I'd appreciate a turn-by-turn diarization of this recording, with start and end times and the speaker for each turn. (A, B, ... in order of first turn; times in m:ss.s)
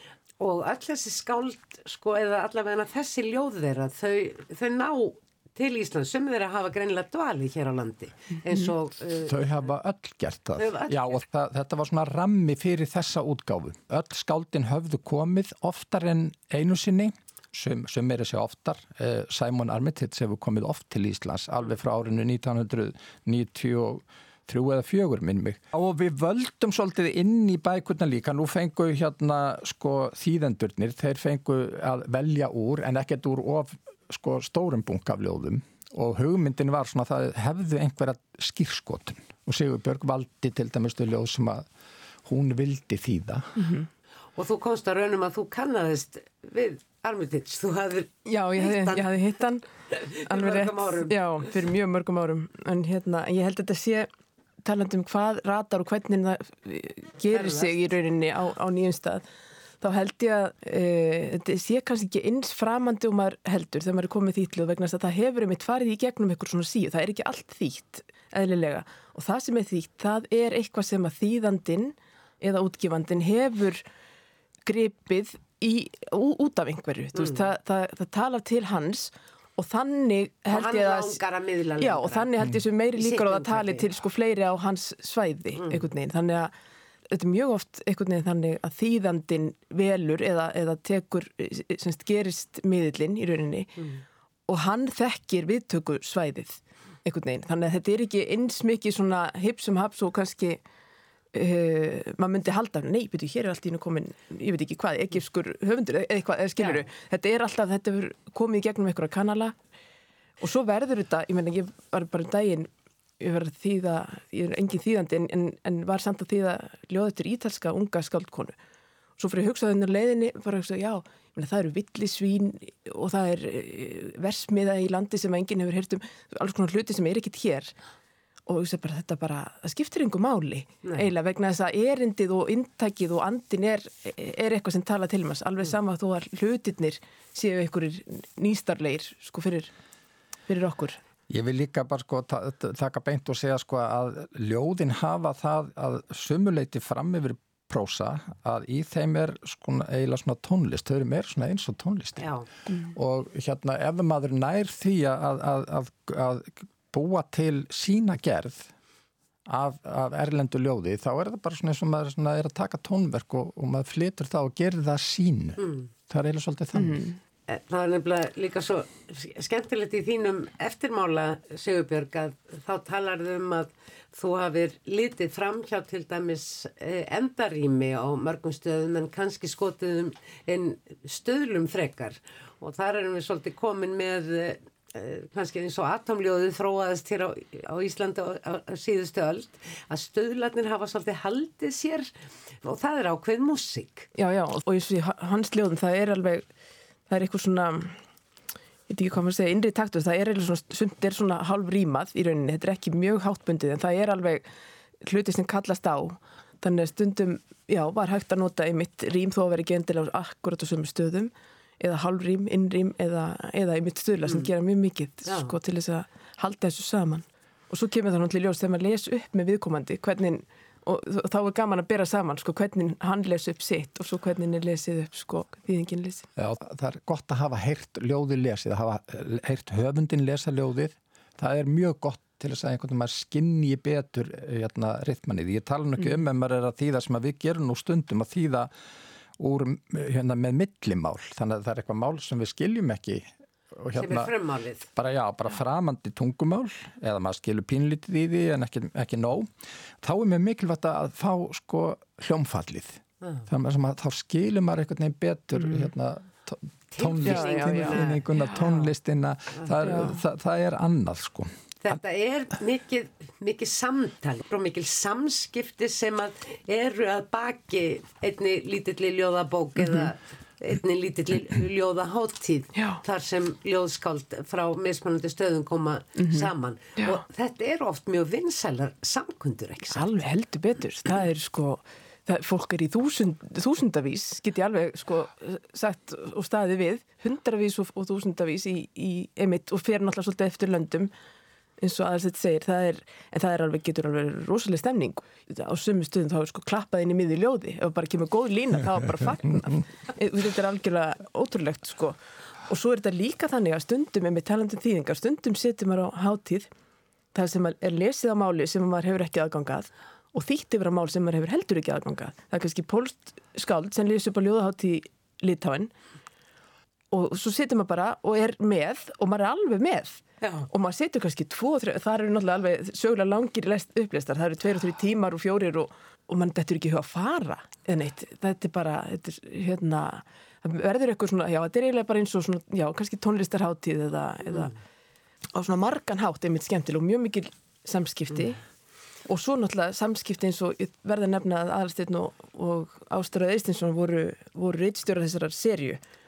0:00.4-0:09.4 A
0:09.2-0:41.6 B
0:10.6-0:11.2 A
0:42.2-0:43.6 B
0:43.6-0:43.9 C
0:44.4-0:49.1 A
0:48.2-0:54.1 C
0:49.9-0:51.2 A
0:54.6-0:59.2 C
0:57.3-0:57.8 A
0:59.8-1:13.8 C
1:14.6-1:21.2 C
1:17.2-1:17.4 A
1:20.5-1:22.3 A
1:21.8-1:26.5 C
1:23.0-1:23.9 A
1:25.6-1:25.9 A
1:27.1-1:33.8 C
1:34.5-1:40.6 C
1:41.3-1:49.5 C
1:50.4-1:52.7 C
1:53.2-1:58.5 C
1:59.2-2:07.8 C
2:08.5-2:19.7 C
2:10.8-2:11.1 A
2:20.5-2:21.0 C
2:21.3-2:32.3 B
2:32.2-2:32.5 A
2:32.8-2:38.7 B
2:39.5-2:47.1 B
2:45.6-2:45.9 A
2:46.8-2:47.1 C
2:47.5-3:12.1 A
3:12.6-3:14.1 A
3:14.2-3:16.5 C
3:17.1-3:18.0 C
3:18.9-3:24.5 C
3:25.0-3:46.2 C
3:35.2-3:35.6 A
3:46.4-3:58.7 B
3:59.4-4:04.3 B
4:03.9-4:04.9 A
4:04.9-4:09.5 B
4:10.0-4:21.5 B
4:17.0-4:18.9 A
4:17.2-4:18.7 C
4:19.8-4:20.2 C
4:21.8-4:40.2 A
4:32.8-4:33.0 C
4:36.2-4:37.2 C
4:39.9-4:51.1 C
4:51.8-5:06.7 C
5:07.3-5:15.9 C
5:17.1-5:34.8 C
5:20.4-5:20.7 A
5:35.5-5:38.6 C
5:39.2-5:46.0 C